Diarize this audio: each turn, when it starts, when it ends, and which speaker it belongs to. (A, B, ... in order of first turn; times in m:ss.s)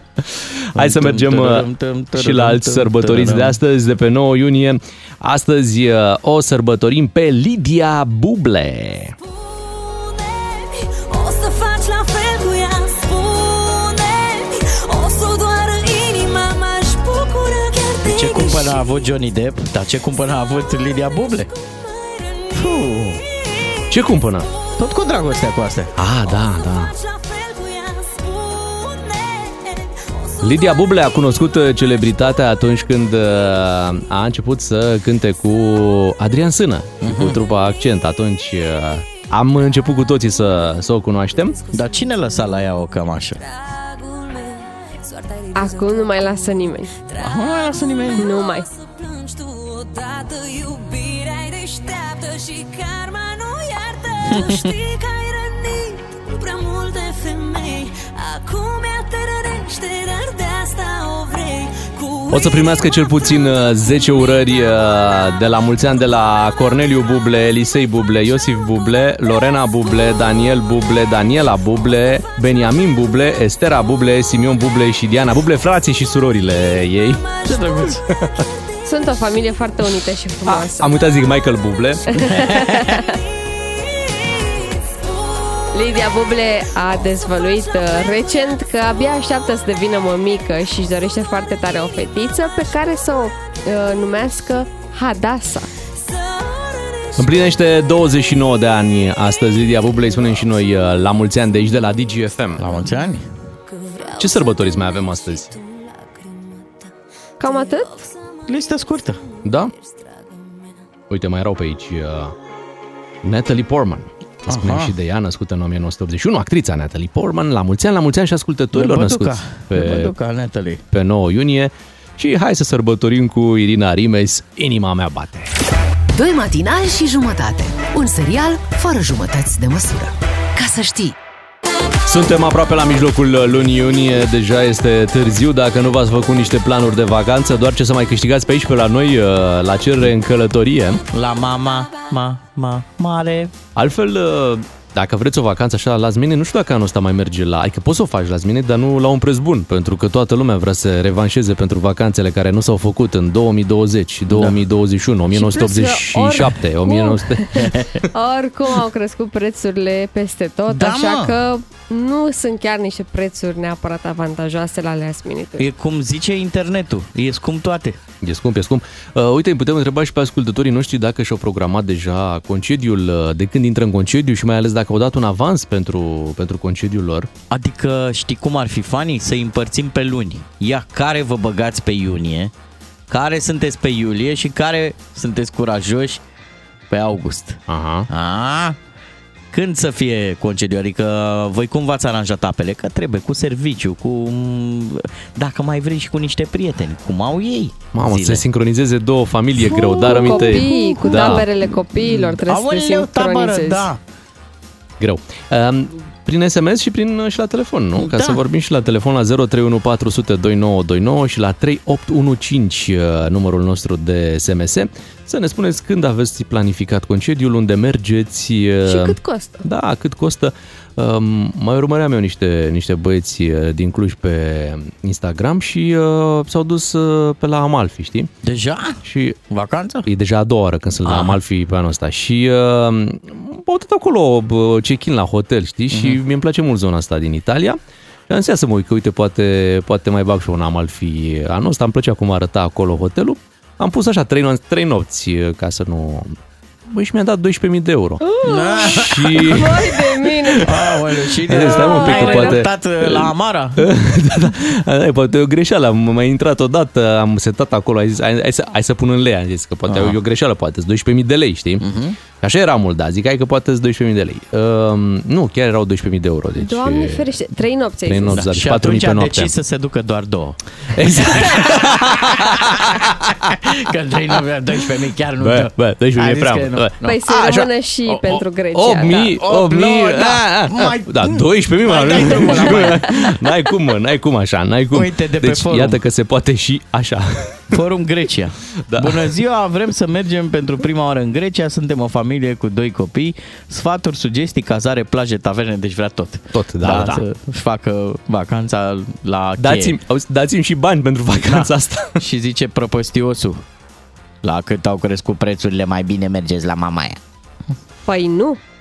0:00.2-0:09.1 A
0:00.8-0:03.6 B
0:09.2-0:19.1 C
0:18.0-0:21.5 B
0:20.4-0:24.6 C
0:22.6-0:23.2 B
0:23.9-0:24.5 A
0:24.8-0:25.9 B
0:26.0-0:26.9 A
0:26.2-0:31.7 C
0:30.4-0:41.6 A
0:37.0-0:37.4 B
0:39.1-1:05.6 C
0:41.7-0:43.4 B
0:45.5-0:46.9 D
0:47.2-0:48.2 B
0:48.2-0:48.7 D
0:54.3-0:54.7 B
1:02.3-1:17.2 A
1:07.0-1:07.3 C
1:08.2-1:08.8 C
1:09.7-1:10.3 C
1:10.9-1:13.2 C
1:17.0-1:19.6 C
1:17.4-1:18.0 B
1:18.8-1:20.9 D
1:20.4-1:22.3 A
1:22.2-1:23.1 D
1:22.3-1:22.9 B
1:22.8-1:28.5 C
1:25.7-1:35.7 D
1:35.9-1:37.8 C
1:37.2-1:42.6 A
1:40.0-1:40.4 C
1:42.6-1:43.3 B
1:43.7-1:50.9 C
1:44.2-1:45.5 A
1:47.4-1:47.9 D
1:48.5-1:49.2 B
1:49.4-1:49.7 A
1:51.1-1:52.3 A
1:53.2-2:00.1 A
1:54.5-1:54.9 B
1:58.7-2:00.8 B
2:00.9-2:05.5 A
2:06.1-2:11.1 E
2:12.1-2:21.0 A
2:21.1-2:23.5 B
2:23.8-2:37.8 A
2:34.3-2:34.6 B
2:35.3-2:45.6 D
2:37.6-2:38.0 B
2:40.7-2:41.4 B
2:45.6-2:48.0 B
2:48.2-2:57.3 A
2:57.5-3:02.5 B
3:03.1-3:06.2 B
3:06.9-3:08.8 B
3:07.7-3:08.1 A
3:09.5-3:18.4 B
3:17.9-3:21.4 A
3:19.6-3:24.0 B
3:20.0-3:23.8 D
3:25.0-3:48.3 A
3:28.0-3:28.4 B
3:38.8-3:39.6 D
3:48.4-3:50.1 B
3:49.0-3:49.4 A
3:50.0-4:06.3 A
3:51.0-3:51.4 B
3:55.9-3:56.2 B
4:06.9-4:08.2 A
4:08.2-4:10.7 D
4:08.4-4:09.5 B
4:08.8-4:10.8 A
4:10.6-4:13.9 B
4:11.4-4:21.8 A
4:11.6-4:12.6 D
4:19.9-4:20.2 B
4:21.8-4:22.2 B
4:22.4-4:27.4 A
4:26.6-4:28.4 D
4:28.0-4:29.5 A
4:28.3-4:37.2 B
4:30.9-4:33.5 A
4:35.4-4:37.7 A
4:37.0-4:39.3 D
4:38.0-4:38.4 B
4:38.7-4:47.8 A
4:39.1-4:43.3 B
4:44.9-4:46.0 B
4:47.7-5:00.0 B
4:48.9-4:49.3 A
4:56.5-4:57.2 A
4:59.6-5:02.2 A
5:01.4-5:03.6 B
5:04.4-5:07.2 B
5:08.0-5:08.6 D